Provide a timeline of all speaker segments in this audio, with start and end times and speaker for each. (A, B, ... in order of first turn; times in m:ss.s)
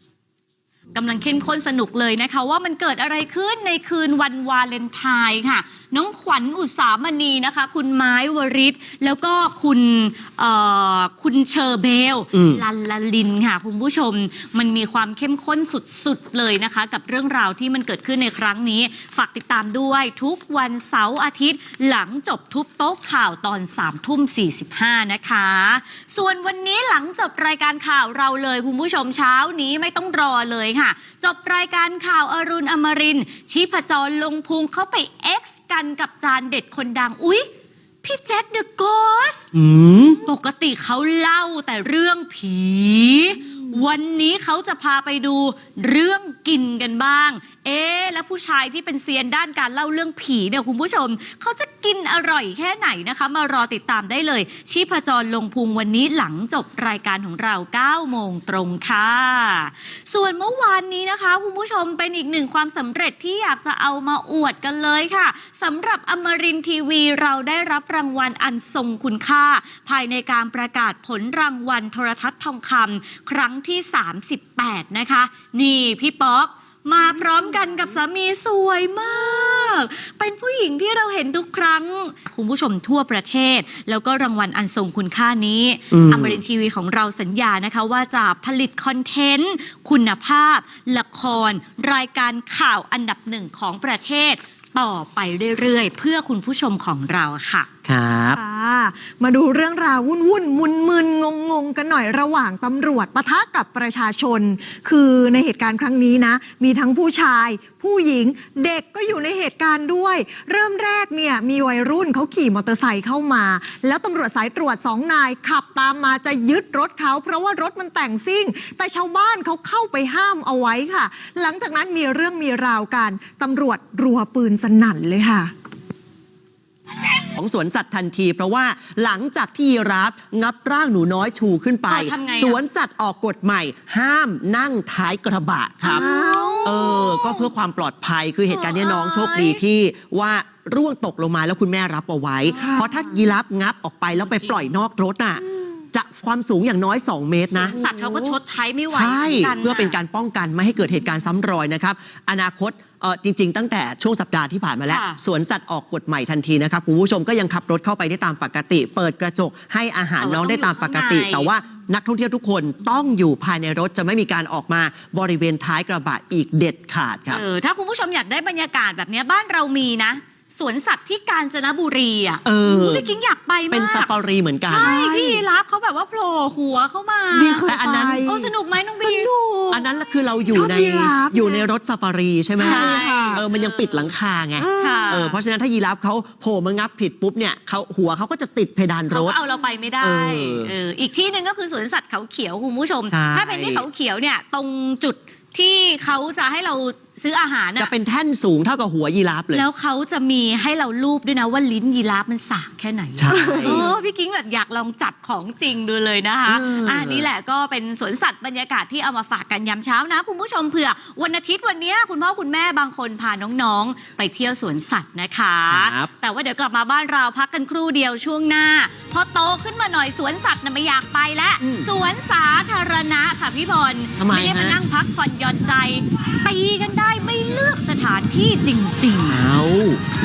0:01.0-0:37.5 A
0:12.3-0:12.6 B
0:38.0-0:39.5 A
0:39.5-0:40.2 B
0:40.2-1:37.7 A
1:25.9-1:26.4 B
1:37.8-1:38.4 B
1:38.3-2:05.5 C
2:07.4-2:16.0 B
2:11.9-2:12.6 A
2:15.8-2:17.4 A
2:15.9-2:16.8 C
2:16.6-2:27.8 B
2:18.5-2:19.6 A
2:22.5-2:22.9 C
2:24.2-2:24.7 A
2:27.8-2:30.0 A
2:28.9-2:47.4 B
2:34.9-2:35.2 A
2:40.2-2:41.5 A
2:47.3-2:54.1 A
2:52.4-2:53.1 B
2:53.7-2:54.9 B
2:54.7-2:57.7 A
2:54.7-2:55.5 C
2:57.3-2:58.4 C
2:57.7-2:58.4 B
2:58.2-2:59.3 A
2:59.0-2:59.8 C
2:59.7-3:09.4 B
3:00.5-3:01.7 C
3:02.6-3:03.4 C
3:02.6-3:04.1 A
3:04.6-3:05.2 C
3:04.8-3:05.4 A
3:09.1-3:17.9 A
3:10.0-3:10.7 B
3:13.1-3:13.8 B
3:17.8-3:19.6 B
3:19.5-3:49.4 A
3:23.2-3:23.9 B
3:23.5-3:23.8 C
3:26.4-3:27.3 B
3:35.7-3:36.1 B
3:41.6-3:41.9 B
3:44.2-3:44.8 B
3:49.3-3:50.0 B